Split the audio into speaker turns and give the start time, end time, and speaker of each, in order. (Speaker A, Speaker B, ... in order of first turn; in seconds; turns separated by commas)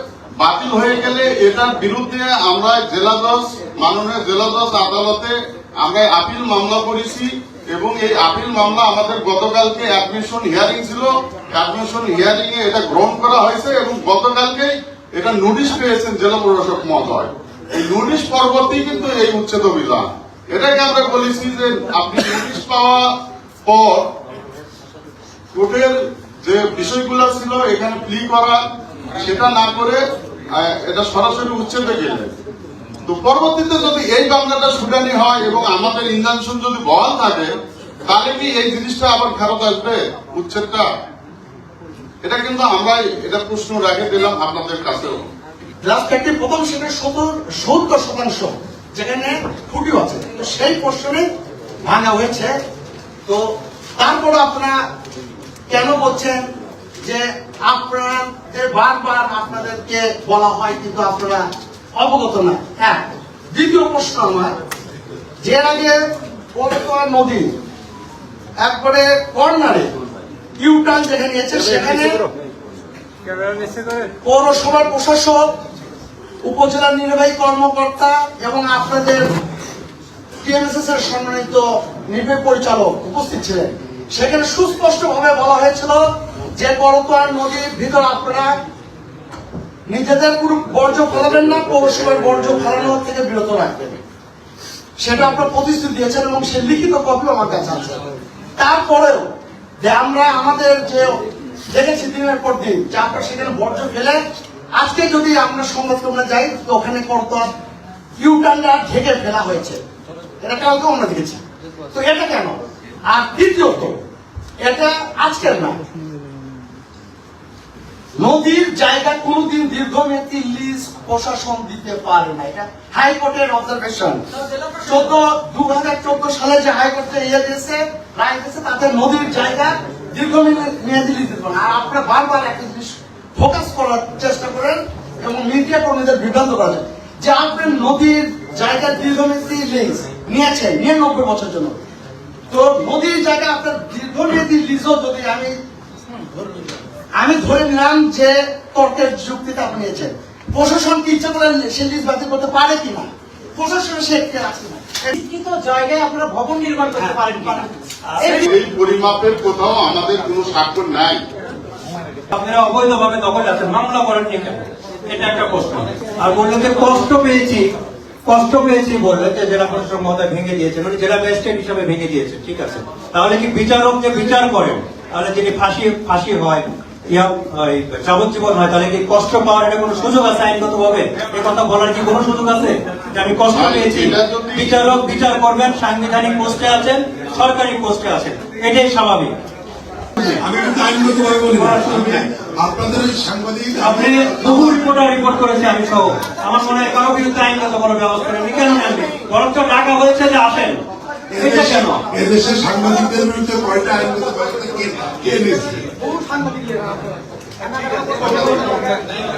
Speaker A: 0.4-23.1, Speaker A: 23.6-24.1, Speaker A: 25.5-28.6, Speaker A: 29.2-30.0, Speaker A: 30.5-32.3, Speaker A: 33.1-37.5, Speaker A: 38.1-40.9, Speaker A: 42.2-45.2, Speaker B: 45.8-51.3, Speaker B: 51.8-52.5, Speaker B: 53.2-54.8, Speaker B: 55.7-56.4, Speaker B: 57.0-64.6, Speaker B: 65.4-66.0, Speaker B: 66.5-67.5, Speaker B: 68.6-69.9, Speaker B: 70.6-72.2, Speaker B: 74.2-75.5, Speaker B: 76.4-79.3, Speaker B: 80.4-86.0, Speaker B: 86.6-88.5, Speaker B: 89.9-94.0, Speaker B: 95.0-98.0, Speaker B: 98.6-99.2, Speaker B: 99.8-104.2, Speaker B: 104.7-107.5, Speaker B: 108.2-109.8, Speaker B: 110.4-111.4, Speaker B: 111.9-112.6, Speaker B: 113.1-114.0, Speaker B: 114.6-115.8, Speaker B: 118.2-141.8, Speaker B: 142.5-145.6, Speaker B: 147.2-155.2, Speaker C: 155.2-157.6, Speaker B: 156.9-157.3, Speaker D: 158.1-158.4, Speaker A: 158.4-161.2, Speaker D: 162.3-167.7, Speaker D: 168.2-189.3, Speaker A: 183.5-184.7, Speaker E: 190.2-194.8, Speaker D: 191.5-192.2, Speaker D: 193.8-200.8, Speaker E: 201.3-205.9, Speaker D: 201.4-202.1, Speaker E: 208.2-208.6